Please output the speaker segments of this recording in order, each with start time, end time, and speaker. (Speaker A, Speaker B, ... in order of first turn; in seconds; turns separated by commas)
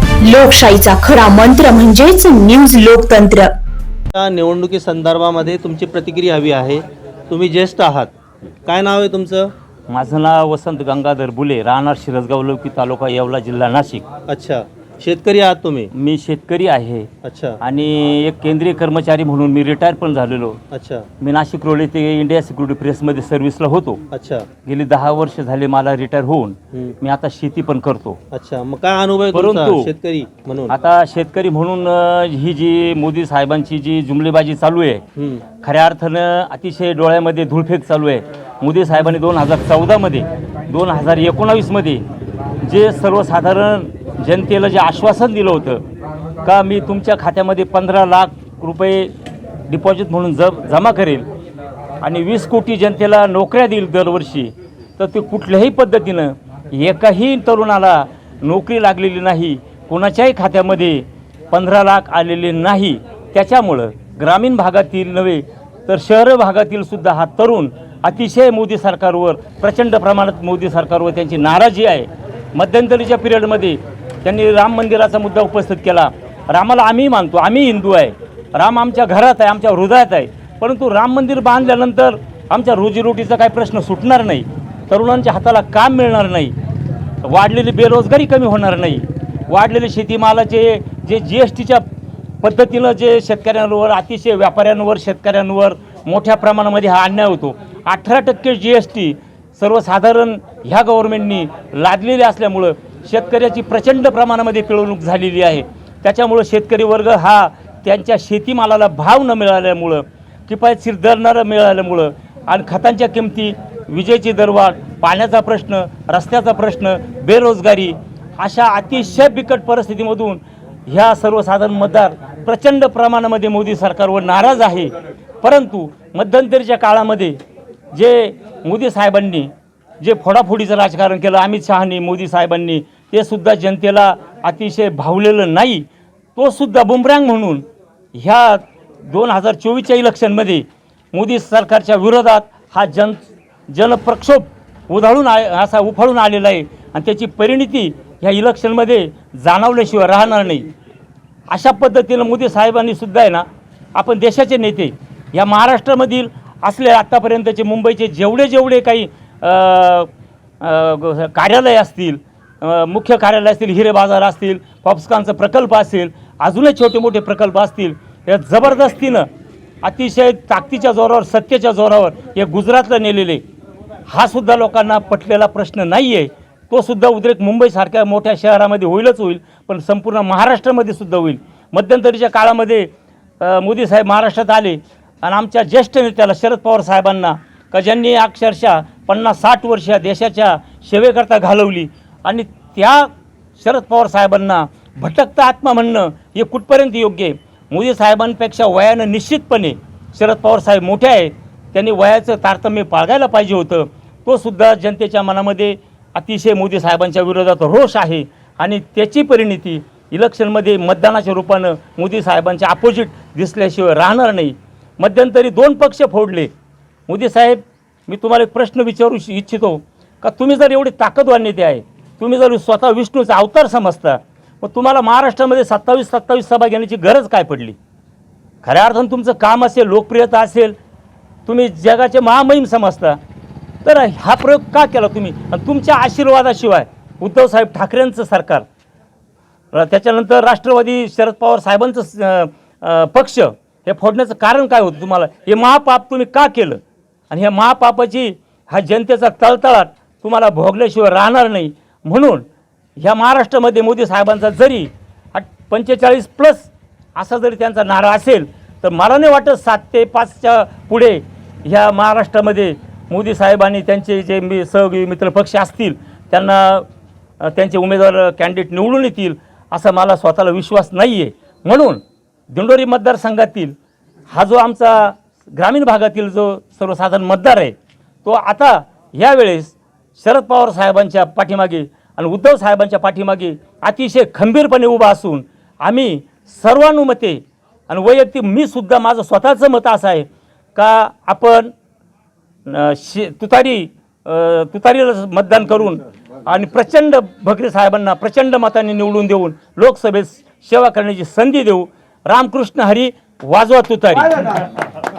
Speaker A: 0.2-3.5, Speaker B: 4.1-8.1, Speaker B: 8.7-9.5, Speaker C: 9.9-14.1, Speaker B: 14.3-15.9, Speaker C: 15.9-17.1, Speaker B: 17.2-17.6, Speaker C: 17.6-20.6, Speaker B: 20.7-21.1, Speaker C: 21.2-24.0, Speaker B: 24.1-24.5, Speaker C: 24.6-28.2, Speaker B: 28.3-30.7, Speaker C: 29.3-29.9, Speaker C: 30.7-35.0, Speaker B: 35.2-35.4, Speaker C: 35.6-42.0, Speaker C: 42.6-45.8, Speaker C: 46.4-49.1, Speaker C: 49.7-51.3, Speaker C: 52.0-86.5, Speaker C: 87.2-91.8, Speaker C: 92.4-127.4, Speaker C: 127.9-150.7, Speaker C: 151.5-169.3, Speaker C: 169.8-173.4, Speaker C: 174.1-216.5, Speaker C: 217.1-227.8, Speaker C: 228.6-230.8, Speaker C: 231.5-233.2, Speaker C: 233.8-238.7, Speaker C: 239.7-252.4, Speaker C: 253.0-266.9, Speaker C: 267.4-273.7, Speaker C: 274.3-291.7, Speaker C: 292.7-304.3